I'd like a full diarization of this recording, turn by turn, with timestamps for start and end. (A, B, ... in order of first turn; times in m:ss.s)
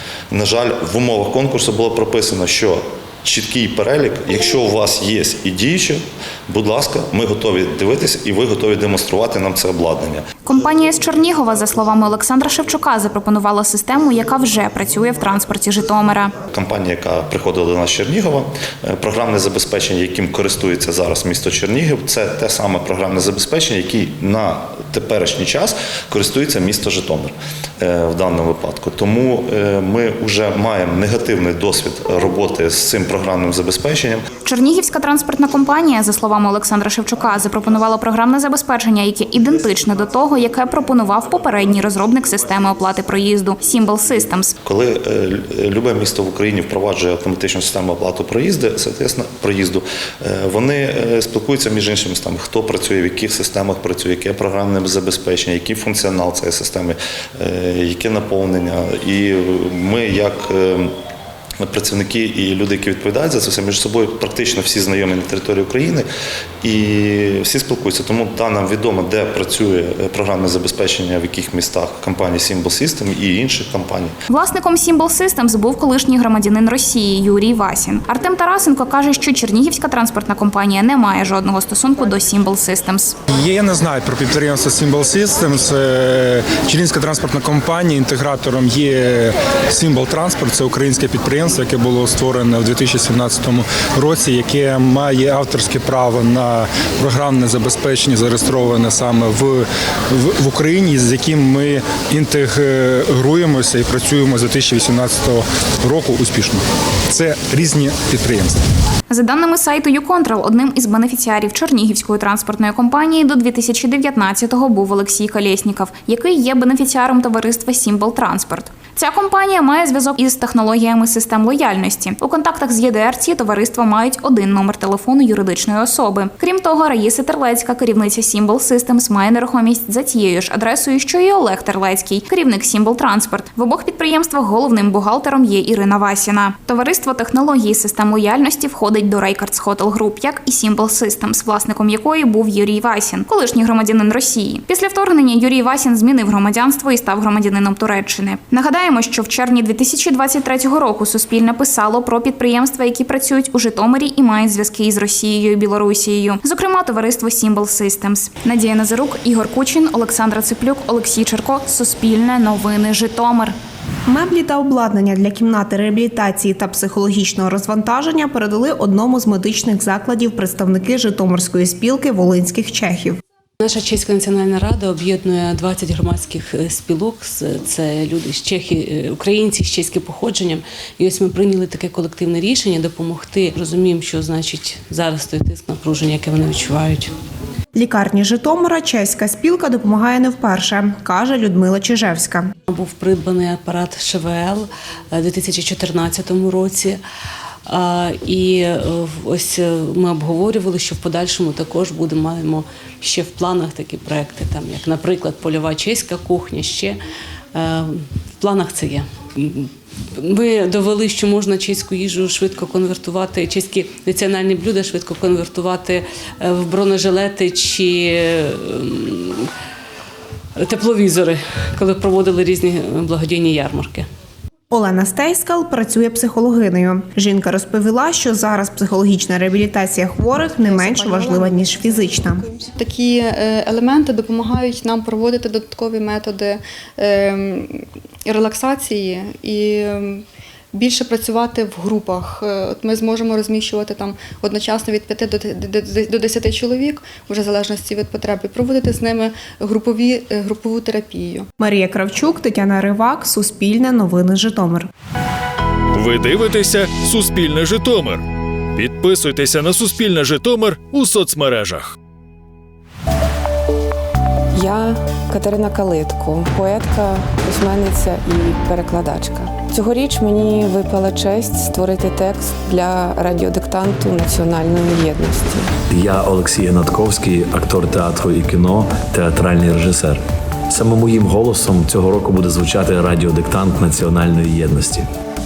0:00.3-0:10.2 A
0:10.4-0:16.4 B
0:16.5-0:34.2 A
0:34.4-0:44.5 B
0:44.6-1:00.9 A
1:01.6-1:06.0 A
1:06.6-1:14.1 A
1:14.3-1:23.2 B
1:23.3-1:48.6 C
1:49.1-2:43.6 B
2:44.1-2:53.2 D
2:53.6-3:07.1 E
3:07.8-3:12.5 D
3:12.7-3:17.0 E
3:17.7-3:27.0 E
3:27.5-3:39.5 E
3:40.6-3:44.0 E
3:44.7-3:52.5 D
3:50.7-3:51.7 F
3:52.3-3:57.7 F
3:58.2-4:11.5 F
4:11.6-4:14.9 D
4:16.0-4:17.9 G
4:18.9-4:21.7 G
4:25.4-4:35.6 H
4:35.9-4:40.2 I
4:40.7-4:45.0 I